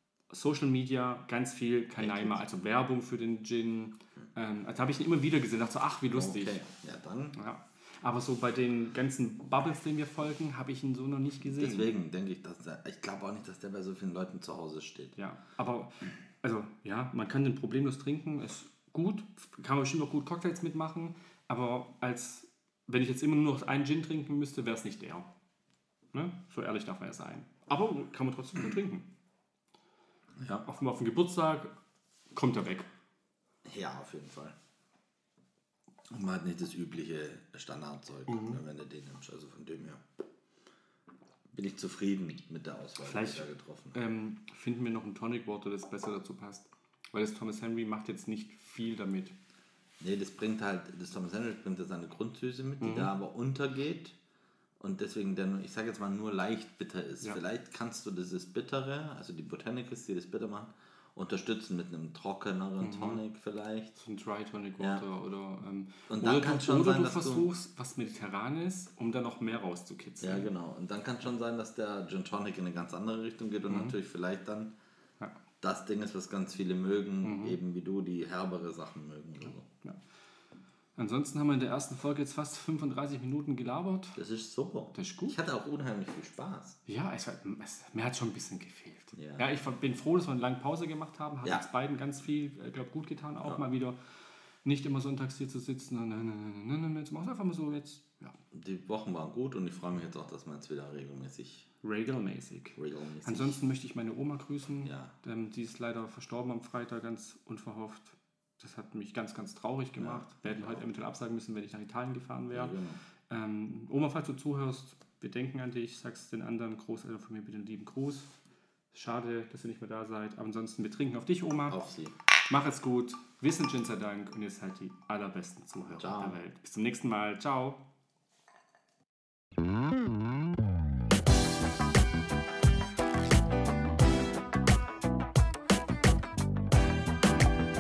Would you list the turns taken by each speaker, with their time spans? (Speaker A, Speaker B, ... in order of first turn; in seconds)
Speaker A: 0.3-6.6, 7.3-11.9, 15.2-25.3, 26.1-29.1, 30.4-31.7, 32.3-32.9, 38.3-38.6, 43.0-49.3, 52.8-53.1, 62.8-63.2, 64.0-70.5, 73.7-73.9, 77.2-77.6, 81.0-84.2, 84.9-85.3, 86.8-94.0, 94.6-98.4, 101.8-112.8, 113.3-118.3, 118.9-121.8, 122.4-127.8
Speaker B: 2.0-2.4, 6.1-7.4, 11.4-15.2, 33.6-34.5, 36.1-40.0, 41.5-44.0, 50.0-54.1, 54.8-64.0, 64.8-65.0, 66.1-67.5, 70.2-74.7, 75.6-79.7, 84.2-86.8, 89.1-89.5, 98.5-101.7, 102.8-103.6, 104.8-105.1, 110.0-110.8, 112.5-113.0, 121.7-122.1, 125.9-126.4